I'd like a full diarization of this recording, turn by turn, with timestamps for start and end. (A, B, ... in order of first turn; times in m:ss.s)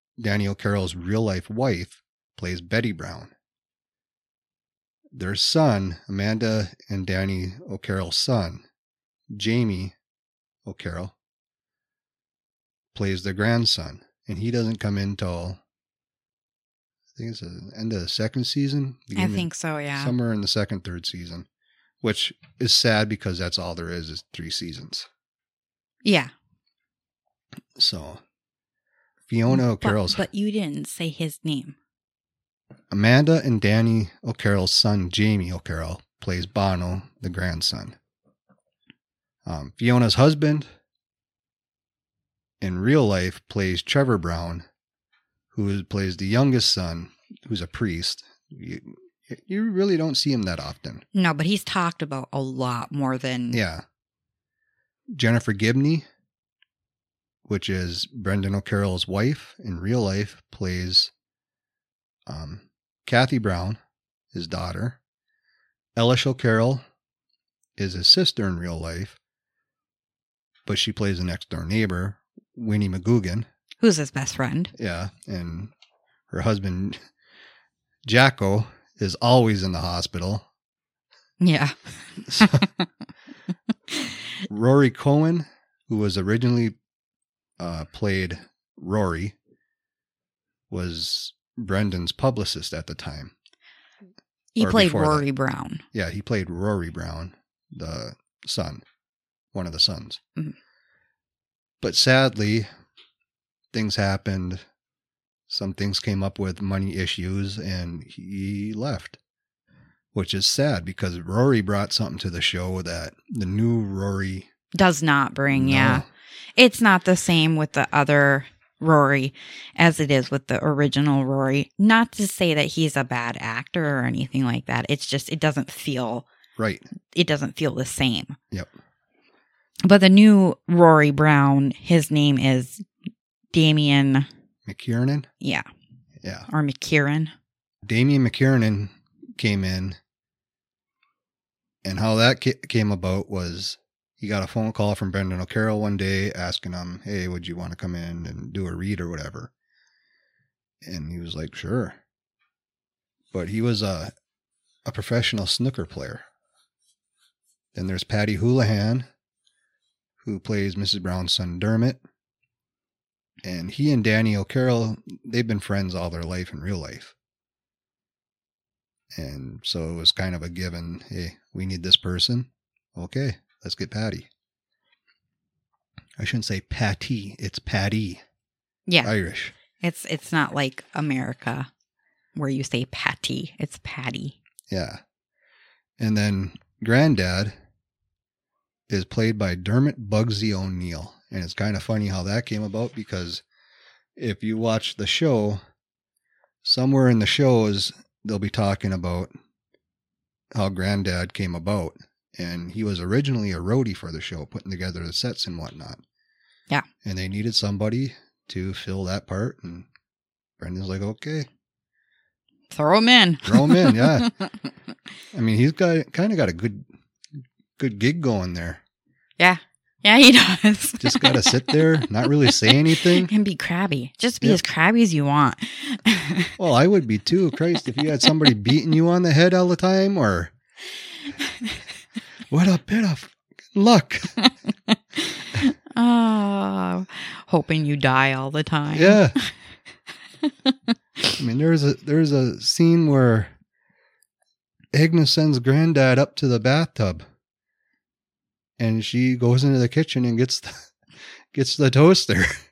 0:00.2-0:03.3 A
0:05.1-0:08.6 A
0:09.3-0:10.0 A
0:10.7-0:11.2 A
0:13.0-0:15.6 A
0:17.2-0:21.5 A
0:19.2-0:20.1 B
0:22.0-0:25.1 A
0:26.0-0:26.3 B
0:27.8-0:28.2 A
0:29.3-0:30.3 A
0:29.5-0:31.8 B
0:32.9-0:38.0 A
0:39.4-0:40.7 A
0:42.6-0:44.7 A
0:45.5-0:51.0 A
0:51.1-0:53.6 B
0:53.5-0:53.8 A
0:55.1-0:56.1 A
0:57.5-1:01.1 A
1:02.3-1:03.8 A
1:04.3-1:05.0 A
1:06.0-1:06.8 A
1:07.8-1:09.2 A
1:10.7-1:13.5 A
1:13.8-1:14.7 B
1:14.8-1:15.7 A
1:16.3-1:17.0 A
1:18.1-1:20.5 A
1:21.4-1:22.9 B
1:24.5-1:26.8 A
1:27.6-1:29.4 A
1:30.7-1:33.3 A
1:34.6-1:35.8 B
1:34.6-1:35.3 A
1:35.9-1:38.8 A
1:39.5-1:40.2 A
1:41.8-1:42.7 A
1:43.7-1:44.6 A
1:45.5-1:49.2 A
1:50.1-1:54.5 A
1:54.7-2:06.3 B
1:55.5-1:56.1 A
2:06.6-2:06.9 A
2:07.1-2:08.4 B
2:09.9-2:12.8 B
2:13.5-2:14.3 B
2:14.7-2:15.3 A
2:15.4-2:15.7 B
2:16.2-2:16.5 A
2:16.5-2:17.3 B
2:17.9-2:20.0 A
2:21.8-2:29.5 A
2:30.8-2:32.0 A
2:33.3-2:34.1 A
2:34.9-2:36.2 A
2:37.8-2:39.1 A
2:40.2-2:42.0 A
2:43.4-2:47.2 A
2:49.2-2:54.3 A
2:56.2-2:58.2 A
2:59.0-2:59.6 A
2:59.8-3:01.7 B
3:02.4-3:04.4 B
3:04.7-3:05.0 A
3:06.0-3:07.6 A
3:08.9-3:13.4 A
3:14.2-3:15.6 A
3:16.6-3:19.3 A
3:20.5-3:26.0 A
3:27.0-3:29.9 A
3:30.6-3:31.5 A
3:32.7-3:34.5 B
3:33.4-3:34.3 A
3:35.3-3:36.8 A
3:37.8-3:38.8 A
3:39.4-3:46.5 B
3:41.0-3:43.3 A
3:46.6-3:50.5 A
3:52.5-3:54.4 A
3:54.9-3:59.5 B
3:58.9-3:59.4 A
4:01.4-4:03.5 A
4:04.9-4:07.2 A
4:08.8-4:10.9 A
4:11.5-4:12.6 A